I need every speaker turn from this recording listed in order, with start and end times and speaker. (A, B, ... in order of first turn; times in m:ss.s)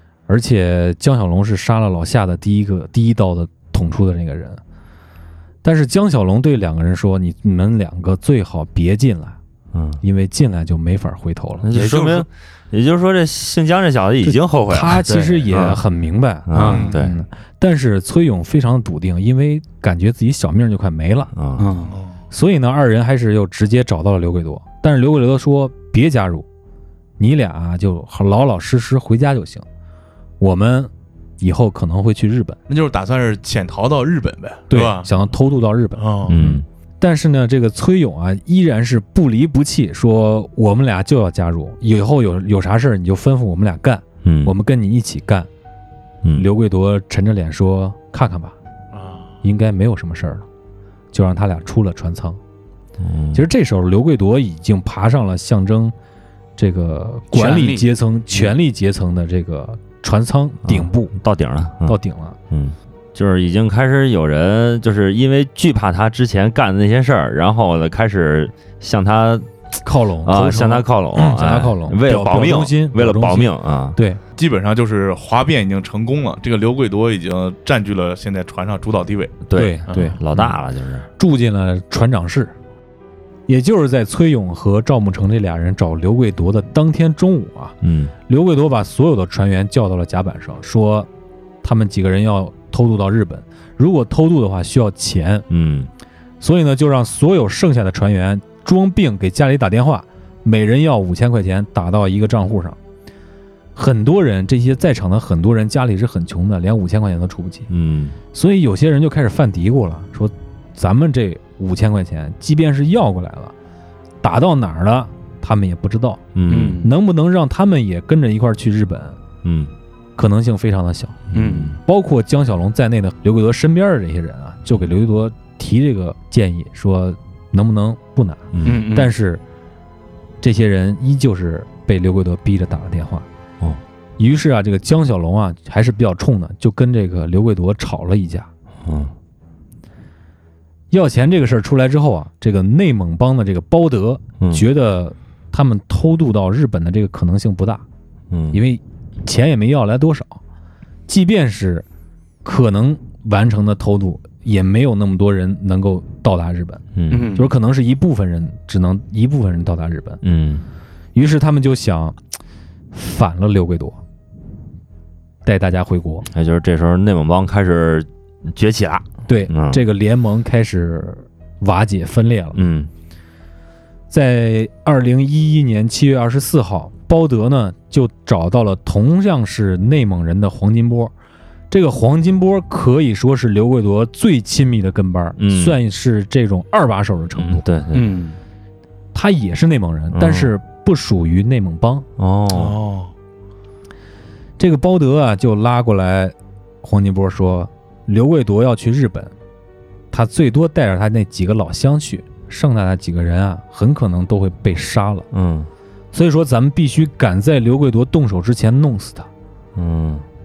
0:00.3-0:04.6 A
0:05.6-0:09.4 A
0:09.7-0:10.0 B
0:10.0-0:11.7 A
0:11.6-0:15.8 B
0:11.7-0:12.2 C
0:14.2-0:21.3 A
0:15.1-0:15.4 C
0:16.5-0:17.1 B
0:16.5-0:17.0 C
0:21.3-0:21.6 B
0:21.6-0:22.0 C
0:22.3-0:26.4 A
0:27.2-0:29.6 A
0:30.4-0:32.6 A
0:32.7-0:35.1 D
0:34.7-0:45.5 A
0:36.0-0:36.4 D
0:36.3-0:36.6 B
0:44.2-0:44.5 B
0:46.3-0:48.6 A
0:48.9-0:49.3 D
0:49.4-0:50.4 A
0:51.1-0:52.4 A
0:53.0-0:53.4 B
0:53.3-0:55.9 A
0:56.6-1:01.1 A
0:57.3-0:57.9 C
1:00.6-1:02.0 B
1:01.8-1:02.4 A
1:02.5-1:09.5 B
1:09.8-1:14.2 A
1:10.2-1:14.0 B
1:14.4-1:19.4 D
1:19.5-1:21.1 B
1:19.5-1:20.6 A
1:19.9-1:20.2 D
1:21.2-1:22.5 A
1:23.5-1:27.7 A
1:27.8-1:28.1 B
1:28.3-1:31.1 A
1:31.6-1:35.4 A
1:35.5-1:35.9 B
1:36.4-1:42.8 A
1:43.8-1:47.7 A
1:47.7-1:48.2 B
1:48.3-1:53.5 A
1:54.2-1:56.2 A
1:56.3-1:56.8 B
1:56.5-1:56.9 C
1:56.8-1:59.2 A
1:59.4-1:59.7 B
2:00.2-2:01.2 A
2:01.3-2:01.8 B
2:01.3-2:01.8 C
2:01.8-2:09.4 A
2:08.5-2:08.8 B
2:08.6-2:09.1 C
2:10.4-2:13.2 A
2:14.2-2:18.5 A
2:18.8-2:19.1 B
2:20.9-2:27.8 A
2:28.3-2:28.6 B
2:28.5-2:30.4 A
2:31.1-2:31.8 A
2:32.4-2:40.2 A
2:36.9-2:37.3 B
2:37.1-2:37.5 C
2:40.2-2:40.6 B
2:41.1-2:42.2 A
2:42.9-2:44.0 A
2:45.4-2:46.3 A
2:46.3-2:49.8 B
2:49.2-2:52.6 A
2:52.5-2:52.9 B
2:54.1-3:01.1 A
3:01.7-3:07.6 A
3:05.4-3:05.8 B
3:07.4-3:08.0 B
3:07.9-3:08.4 C
3:09.1-3:12.0 A
3:10.1-3:10.5 B
3:12.2-3:12.8 B
3:12.5-3:13.1 D
3:14.6-3:19.3 A
3:20.1-3:25.3 A
3:25.3-3:25.7 B
3:26.1-3:29.3 A
3:29.8-3:30.2 B